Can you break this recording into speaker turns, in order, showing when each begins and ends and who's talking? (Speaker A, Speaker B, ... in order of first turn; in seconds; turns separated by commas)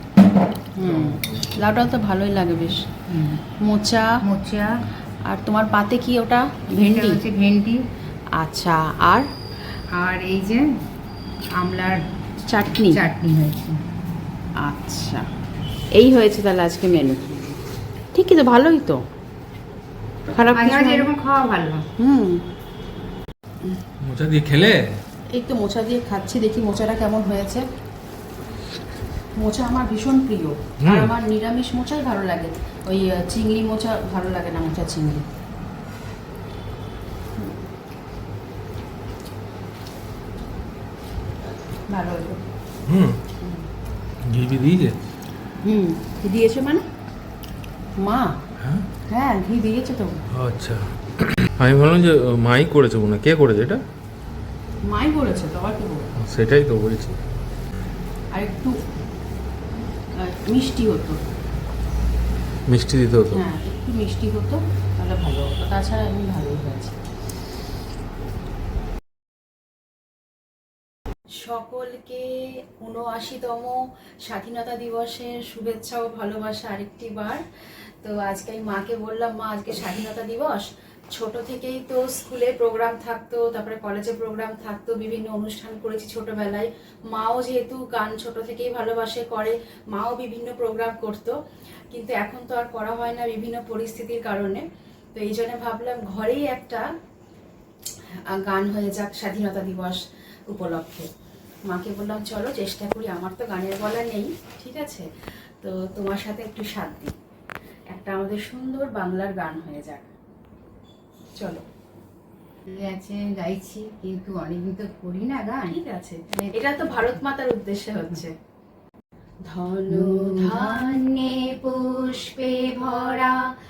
Speaker A: 0.8-2.8, Speaker B: 0.8-1.4, Speaker C: 3.1-3.4, Speaker A: 3.6-4.2, Speaker C: 4.2-4.7, Speaker A: 5.2-7.2, Speaker C: 6.8-7.8, Speaker A: 8.4-9.3, Speaker C: 9.9-10.7, Speaker C: 11.6-12.0, Speaker A: 12.5-13.0, Speaker C: 12.9-13.8, Speaker A: 14.6-15.2, Speaker A: 15.9-17.3, Speaker A: 18.1-19.0, Speaker A: 20.3-21.1, Speaker C: 20.5-21.8, Speaker A: 22.0-22.4, Speaker B: 24.0-24.9, Speaker A: 25.3-27.6, Speaker A: 29.4-35.2, Speaker B: 30.8-31.1, Speaker A: 41.9-42.4, Speaker B: 42.9-43.2, Speaker B: 44.2-45.0, Speaker A: 45.6-46.8, Speaker A: 48.0-48.4, Speaker B: 48.6-48.9, Speaker A: 49.1-50.2, Speaker B: 50.3-53.8, Speaker A: 54.8-56.1, Speaker B: 56.2-57.2, Speaker A: 58.3-58.8, Speaker A: 60.2-61.2, Speaker B: 62.7-63.4, Speaker A: 63.3-66.9, Speaker A: 71.3-77.4, Speaker A: 78.0-91.3, Speaker A: 91.9-96.9, Speaker A: 98.3-101.1, Speaker A: 101.7-105.1, Speaker A: 105.6-107.1, Speaker A: 107.9-110.1, Speaker A: 111.4-111.6, Speaker C: 112.7-115.8, Speaker A: 115.7-118.3, Speaker C: 116.3-117.2, Speaker A: 119.5-121.0, Speaker C: 119.9-123.5